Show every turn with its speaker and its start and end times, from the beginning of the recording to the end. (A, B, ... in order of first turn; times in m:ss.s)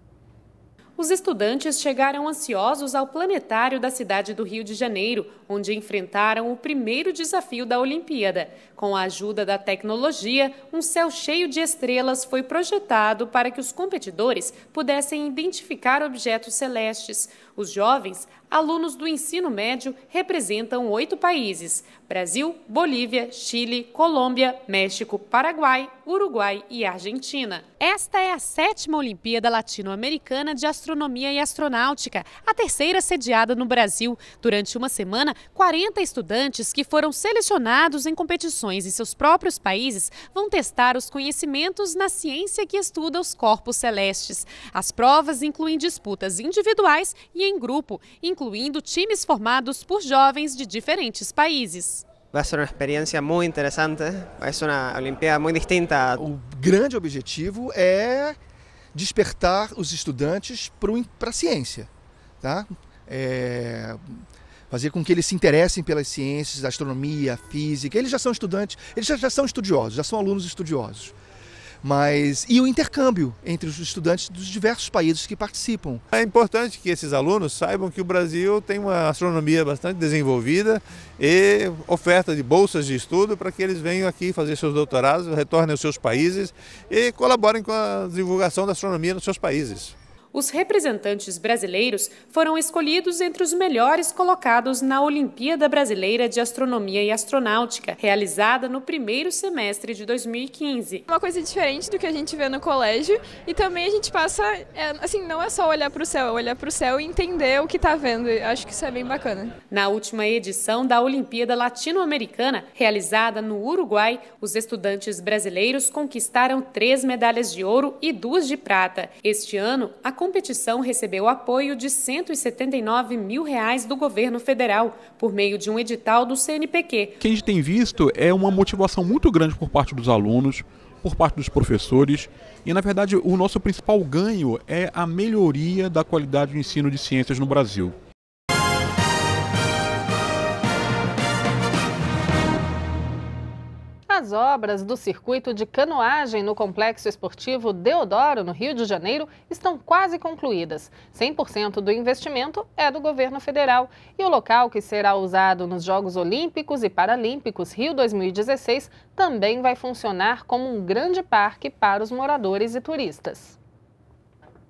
0:01.0-0:52.1 A
0:52.3-0:56.1 B
0:56.2-0:58.4 C
0:58.9-1:01.9 C
1:02.4-1:11.2 C
1:11.8-1:16.0 C
1:16.1-1:30.0 D
1:30.3-1:41.0 A
1:41.1-1:49.6 E
1:49.7-2:07.2 A
2:07.2-2:18.0 F
2:24.1-2:43.6 G